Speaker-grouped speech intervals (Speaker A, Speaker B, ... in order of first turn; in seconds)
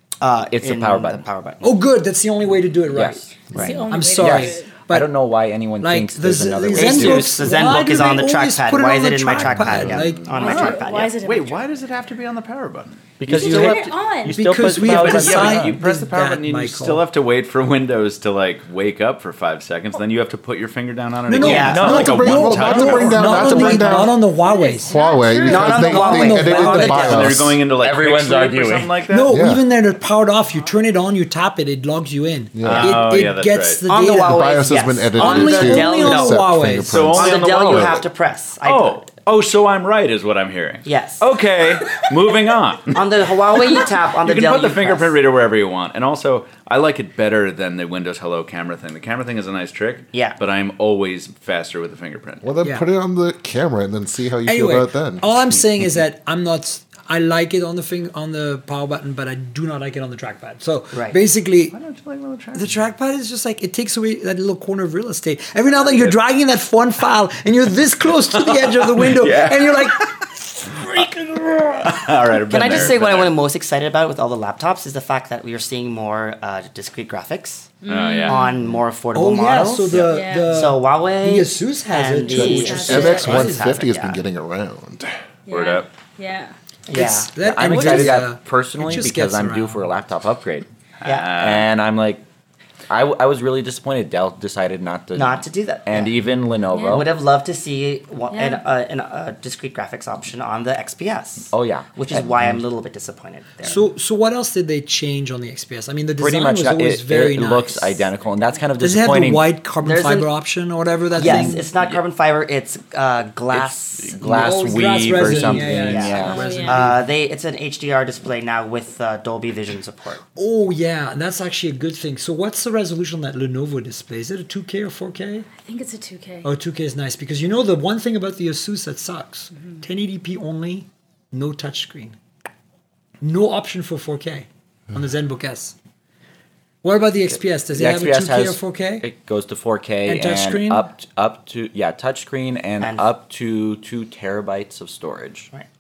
Speaker A: 0.2-1.8, 3.5-3.8, 6.7-11.2, 21.4-22.2, 23.1-23.9, 25.4-27.5, 33.9-36.5, 37.2-39.0, 40.9-41.3, 42.9-45.2, 50.1-50.4, 60.9-61.2, 72.5-77.8, 78.3-84.2, 86.9-88.2, 91.0-91.4, 95.1-96.2, 96.9-103.8, 109.8-110.3, 111.2-120.2, 142.8-143.1
Speaker B: 0.5-1.2, 2.9-3.5, 4.2-7.6, 13.2-15.8, 21.4-22.2, 27.8-28.9, 87.4-90.7, 91.3-92.2, 92.9-97.1, 101.5-102.3, 106.2-109.5, 113.5-116.7, 137.7-145.5
Speaker C: 1.6-3.3, 3.9-5.1, 5.8-10.4, 13.3-17.1, 21.3-25.0, 25.6-27.1, 29.1-34.4, 35.1-37.1, 52.6-52.9, 54.5-61.8, 62.5-72.1, 79.1-83.7, 86.9-89.9, 103.6-108.1, 108.8-111.7, 114.2-117.0, 120.3-125.5, 126.4-132.2, 133.2-135.8, 136.8-139.1, 140.1-140.9
Speaker D: 3.6-4.8, 10.3-11.7, 13.3-14.9, 23.5-26.2, 77.8-78.6, 80.0-80.7, 82.3-83.5, 85.5-86.5, 96.7-97.1, 98.3-98.6, 116.1-116.8, 125.5-126.5
Speaker E: 9.4-10.3, 21.5-24.2, 24.9-27.6, 29.3-29.6, 32.5-33.1, 34.2-38.0, 52.4-55.3, 82.3-85.1
Speaker F: 10.4-13.1, 14.9-23.7, 26.9-29.3, 32.6-33.8, 36.9-38.0, 38.6-52.5, 61.7-62.7, 68.3-71.1, 71.8-73.4, 77.9-78.5, 85.5-85.9, 91.0-91.7